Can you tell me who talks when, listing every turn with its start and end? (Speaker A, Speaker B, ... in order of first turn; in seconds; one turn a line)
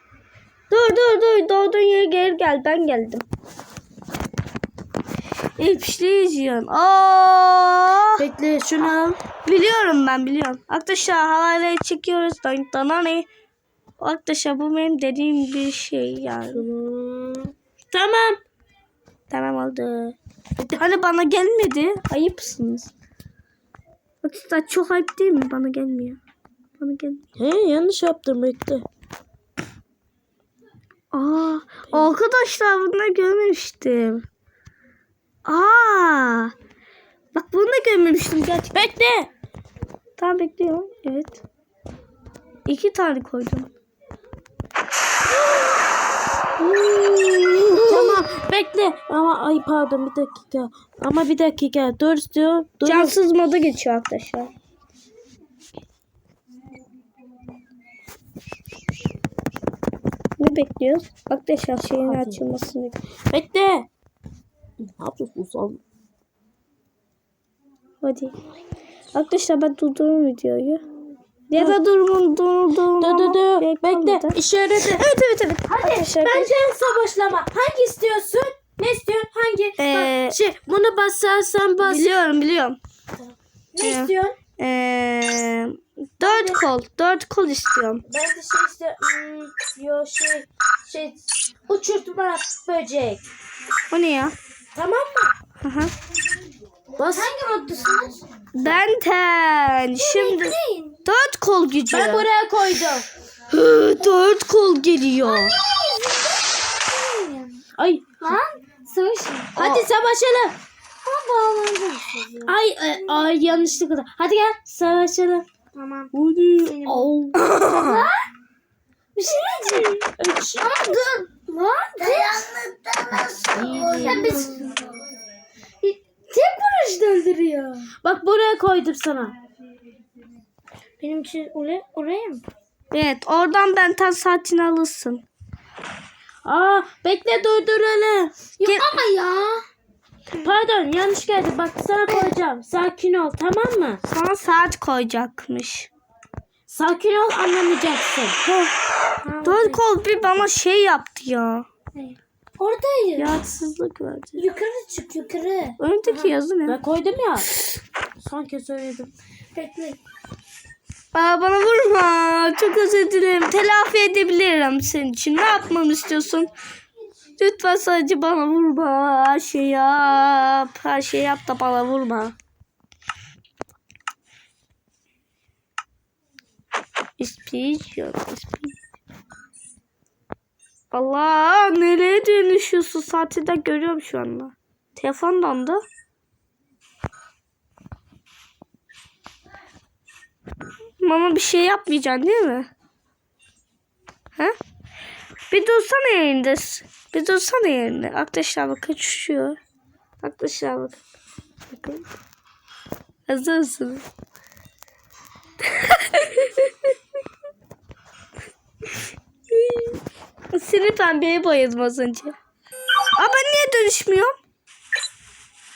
Speaker A: 0.7-3.2
Speaker A: 5.6-8.2
Speaker B: 8.2-9.2
Speaker A: 9.4-13.3
Speaker A: 14.0-16.7
Speaker B: 16.5-18.4
Speaker A: 19.3-20.2
Speaker A: 20.8-22.9
Speaker A: 24.2-26.2
Speaker A: 26.8-27.2
Speaker B: 27.4-28.9
Speaker A: 31.1-34.2
Speaker A: 35.5-36.5
Speaker A: 37.3-38.9
Speaker B: 38.8-39.3
Speaker A: 40.2-41.4
Speaker A: 42.7-43.7
Speaker A: 46.6-48.2
Speaker B: 46.9-53.2
Speaker A: 52.9-54.5
Speaker A: 60.4-63.0
Speaker B: 62.0-62.4
Speaker B: 63.3-63.9
Speaker B: 64.8-65.8
Speaker A: 68.0-68.3
Speaker A: 69.1-70.8
Speaker A: 71.5-76.5
Speaker B: 71.5-71.8
Speaker B: 73.0-75.0
Speaker B: 75.7-82.2
Speaker A: 79.8-80.4
Speaker A: 81.8-82.8
Speaker B: 83.2-84.4
Speaker A: 83.8-88.0
Speaker B: 86.2-86.6
Speaker B: 88.1-93.2
Speaker A: 93.9-94.4
Speaker B: 94.8-95.3
Speaker A: 95.6-95.9
Speaker B: 97.0-97.3
Speaker C: 97.1-98.2
Speaker A: 98.5-100.5
Speaker C: 100.0-101.0
Speaker A: 101.1-102.3
Speaker B: 101.9-103.1
Speaker A: 103.5-105.6
Speaker C: 105.2-107.6
Speaker B: 107.8-108.0
Speaker C: 108.2-109.6
Speaker B: 109.5-110.6
Speaker A: 109.6-109.9
Speaker C: 111.0-112.6
Speaker B: 112.5-115.5
Speaker C: 115.7-116.1
Speaker B: 116.1-116.8
Speaker C: 116.7-118.3
Speaker A: 116.8-118.1
Speaker C: 119.2-125.0
Speaker A: 119.2-120.0
Speaker B: 120.2-120.7
Speaker B: 123.5-124.5
Speaker C: 125.8-127.9
Speaker B: 128.0-129.4
Speaker C: 131.0-132.4
Speaker A: 132.9-135.2
Speaker B: 136.4-138.3
Speaker C: 138.6-139.7
Speaker B: 140.4-144.0
Speaker A: 144.1-145.9
Speaker B: 146.7-148.4
Speaker C: 149.2-149.8
Speaker A: 149.4-151.7
Speaker C: 151.9-153.4
Speaker A: 153.2-154.4
Speaker C: 154.4-155.8
Speaker A: 155.8-156.8
Speaker B: 156.0-157.5
Speaker B: 158.2-159.1
Speaker C: 159.5-160.0
Speaker A: 161.1-166.5
Speaker A: 167.4-172.3
Speaker A: 177.2-178.8
Speaker A: 180.9-185.8
Speaker A: 191.0-192.7
Speaker A: 195.5-199.6
Speaker A: 200.2-201.0
Speaker A: 201.7-202.1
Speaker A: 203.3-204.1
Speaker A: 205.7-206.9
Speaker A: 209.5-210.0
Speaker A: 210.5-212.3
Speaker A: 213.2-214.3